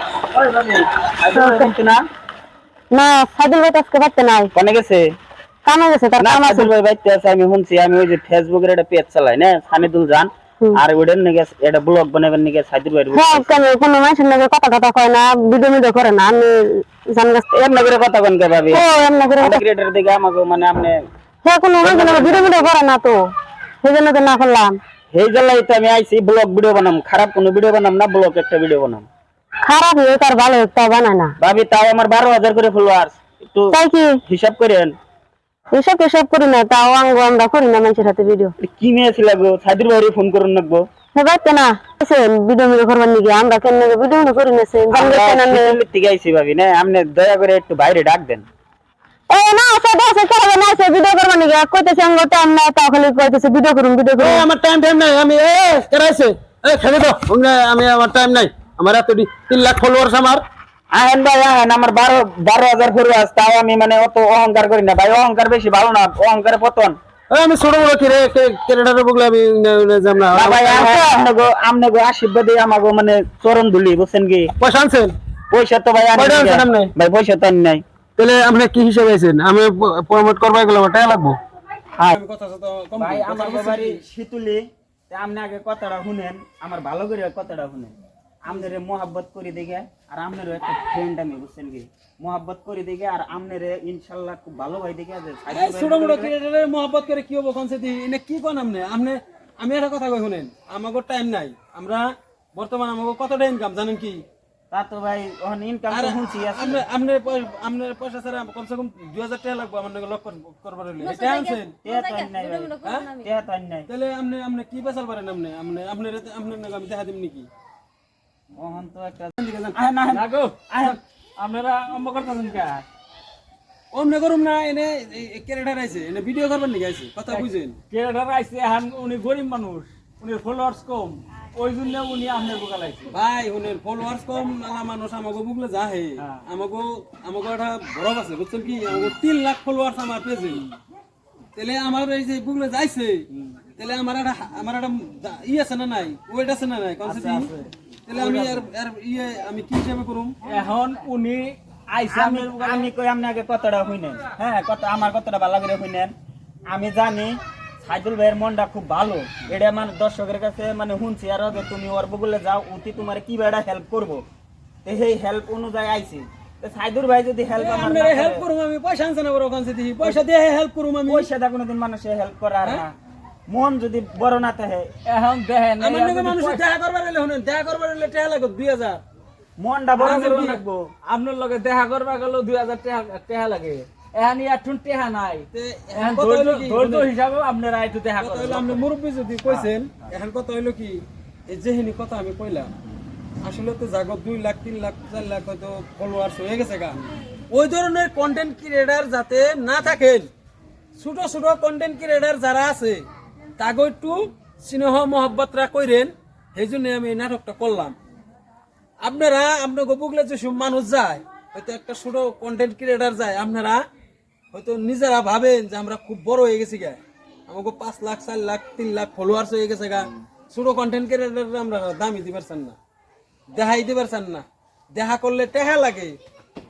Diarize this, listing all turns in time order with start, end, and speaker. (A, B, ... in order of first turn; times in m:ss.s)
0:00.3-0:02.0 A
0:01.3-0:01.7 B
0:02.9-0:04.5 B
0:04.6-0:05.1 A
0:05.7-0:06.7 B
0:06.2-0:13.6 A
0:13.1-0:17.5 B
0:17.5-0:18.8 A
0:18.7-0:19.6 B
0:19.4-0:21.0 A
0:21.4-0:24.8 B
0:21.8-0:22.7 A
0:25.1-0:29.1 A
0:29.6-0:31.3 B
0:31.4-0:35.0 A
0:33.7-0:34.2 B
0:35.7-0:38.5 B
0:38.6-0:40.9 A
0:41.1-0:45.8 B
0:44.9-0:48.4 A
0:49.3-0:54.4 B
0:54.2-1:00.4 C
1:00.9-1:07.0 A
1:07.3-1:11.0 C
1:10.3-1:14.5 A
1:14.6-1:15.2 C
1:15.5-1:17.8 A
1:16.1-1:16.9 C
1:18.2-1:21.4 C
1:22.1-1:24.0 C
1:23.0-1:36.3 A
1:35.5-1:44.2 C
1:44.7-1:46.8 A
1:45.9-1:51.8 C
1:51.8-1:53.9 A
1:52.4-1:52.9 B
1:52.8-1:53.1 C
1:53.9-1:57.5 C
1:58.6-2:01.0 A
1:59.4-1:59.8 C
2:00.1-2:02.8 D
2:03.9-2:07.8 C
2:07.3-2:13.2 D
2:13.1-2:20.6 C
2:21.6-2:27.5 C
2:27.0-2:28.6 A
2:28.1-2:30.4 C
2:30.4-2:32.9 D
2:32.1-2:36.1 A
2:36.7-2:44.2 A
2:44.8-2:48.5 A
2:47.6-2:51.3 C
2:51.1-2:53.0 A
2:53.5-2:54.9 A
2:55.0-2:56.6 D
2:55.8-2:59.0 C
2:59.6-3:00.9 A
3:00.0-3:00.6 C
3:00.0-3:08.9 D
3:05.5-3:07.1 C
3:08.2-3:12.7 C
3:13.4-3:17.0 C
3:17.5-3:20.3 C
3:21.0-3:23.1 C
3:23.6-3:28.0 C
3:29.0-3:33.8 C
3:34.5-3:42.8 C
3:43.5-3:46.2 C